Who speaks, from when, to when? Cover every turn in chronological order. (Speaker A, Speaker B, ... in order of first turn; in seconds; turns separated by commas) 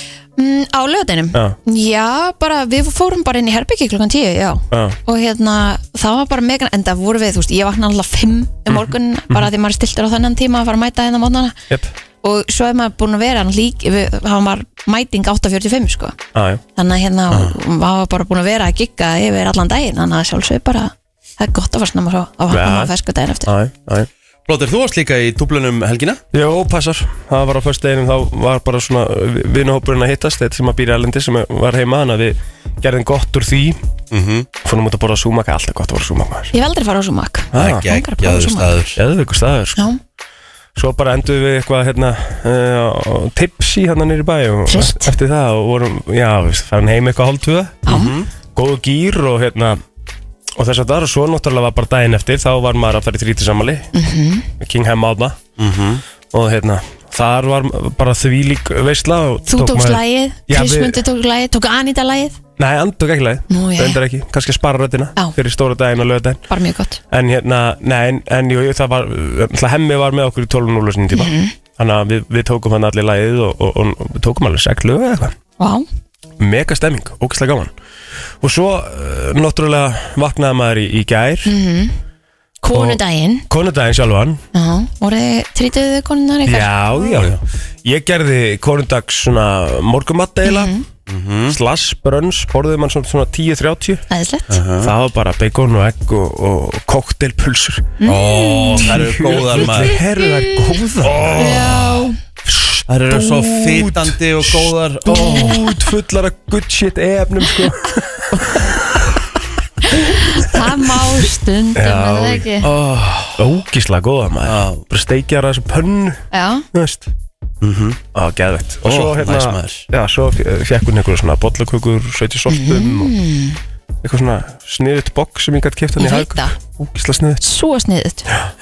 Speaker A: 0.4-11.6, Speaker B: 4.7-5.0, Speaker B: 8.7-9.4, Speaker A: 12.2-16.2, Speaker B: 16.3-16.6, Speaker A: 16.8-23.5, Speaker B: 22.5-22.9, Speaker B: 23.5-24.1, Speaker C: 24.5-26.2, Speaker B: 26.3-33.8, Speaker C: 34.1-34.5, Speaker B: 34.6-36.5, Speaker A: 36.5-38.8, Speaker B: 37.5-37.9, Speaker C: 37.5-39.0, Speaker B: 39.0-39.9, Speaker B: 40.8-47.9, Speaker A: 44.7-45.1, Speaker A: 47.9-48.1, Speaker C: 47.9-48.3, Speaker B: 48.5-49.8, Speaker B: 50.6-53.9, Speaker A: 53.9-54.5, Speaker B: 54.6-55.4, Speaker C: 55.6-56.0, Speaker B: 56.3-61.0, Speaker A: 59.5-62.4, Speaker B: 62.6-66.4, Speaker A: 63.5-64.0, Speaker A: 66.5-67.0, Speaker B: 67.1-75.3, Speaker A: 71.1-71.5, Speaker A: 75.6-75.9, Speaker B: 76.4-77.7, Speaker B: 78.4-81.5, Speaker A: 81.5-82.0, Speaker A: 82.6-83.5, Speaker B: 82.7-84.4, Speaker A: 84.5-86.7, Speaker B: 86.5-90.7, Speaker C: 87.1-87.4, Speaker A: 90.5-90.8, Speaker C: 91.1-91.6, Speaker B: 91.5-94.0, Speaker A: 94.1-94.6, Speaker C: 94.5-94.9, Speaker B: 94.8-98.0, Speaker A: 98.0-99.0, Speaker C: 98.0-100.0, Speaker B: 98.8-109.1, Speaker A: 99.8-100.8, Speaker C: 101.2-101.6, Speaker A: 101.4-102.2, Speaker C: 102.9-105.6, Speaker A: 105.1-105.6, Speaker A: 109.8-112.7, Speaker B: 110.2-110.7, Speaker B: 111.8-112.5, Speaker C: 112.6-113.5, Speaker B: 113.4-117.1, Speaker C: 114.5-114.8, Speaker A: 116.3-116.7, Speaker C: 117.6-118.0, Speaker B: 118.1-123.1, Speaker C: 118.8-119.9, Speaker A: 122.5-123.6, Speaker B: 124.0-127.4, Speaker A: 126.0-126.5, Speaker A: 127.4-128.3